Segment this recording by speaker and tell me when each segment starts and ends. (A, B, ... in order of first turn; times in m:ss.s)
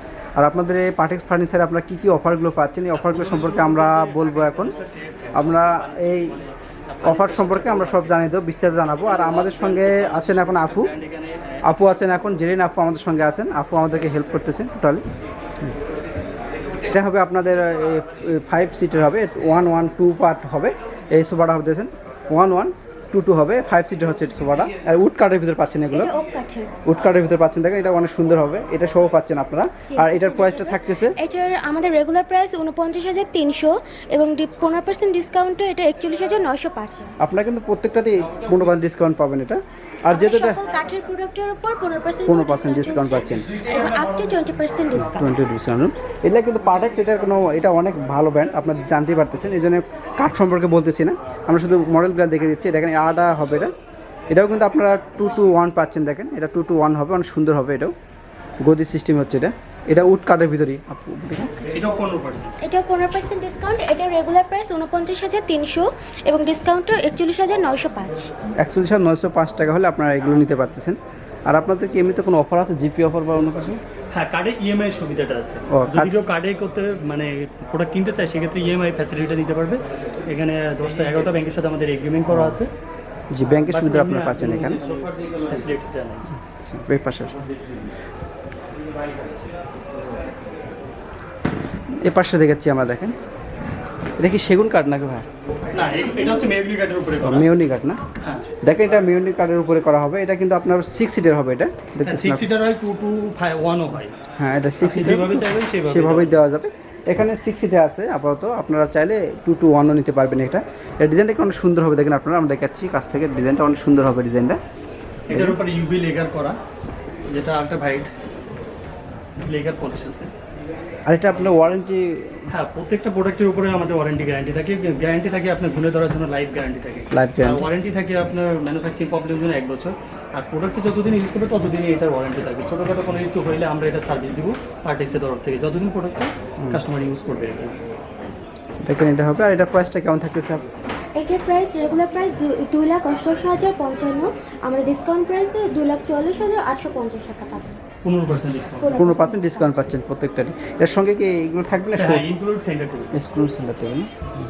0:00.4-0:04.7 A
0:02.9-0:08.3 B
0:05.4-0:06.4 A
0:07.0-0:10.9 A
0:09.0-0:12.3 B
0:11.6-0:15.0 A
0:16.8-0:26.1 A
0:25.9-0:26.7 C
0:26.9-0:31.2 A
0:29.9-0:37.2 C
0:37.2-0:40.6 A
0:40.1-0:45.5 C
0:42.3-0:43.5 A
0:44.9-0:53.7 A
0:54.3-0:57.9 A
0:58.6-1:01.7 A
1:01.7-1:02.6 B
1:02.6-1:08.3 C
1:08.6-1:13.8 A
1:14.1-1:22.7 B
1:15.7-1:16.1 A
1:22.3-1:22.6 A
1:23.3-1:24.8 A
1:23.7-1:26.3 B
1:26.5-1:27.4 A
1:32.0-1:33.2 A
1:34.2-1:35.3 A
1:35.7-1:37.5 B
1:37.2-1:38.0 A
1:38.2-1:38.5 B
1:38.6-1:42.5 A
1:42.0-1:44.2 B
1:44.4-1:54.6 A
1:44.8-1:46.4 B
1:55.3-1:56.6 B
1:55.3-1:55.6 A
1:57.3-1:58.1 B
1:59.5-2:00.3 B
2:01.1-2:02.5 A
2:02.5-2:17.8 B
2:07.1-2:07.7 A
2:18.8-2:20.6 A
2:21.2-2:27.8 C
2:28.0-2:28.9 B
2:28.8-2:29.9 C
2:28.9-2:32.3 A
2:31.9-2:33.1 B
2:33.1-2:34.1 A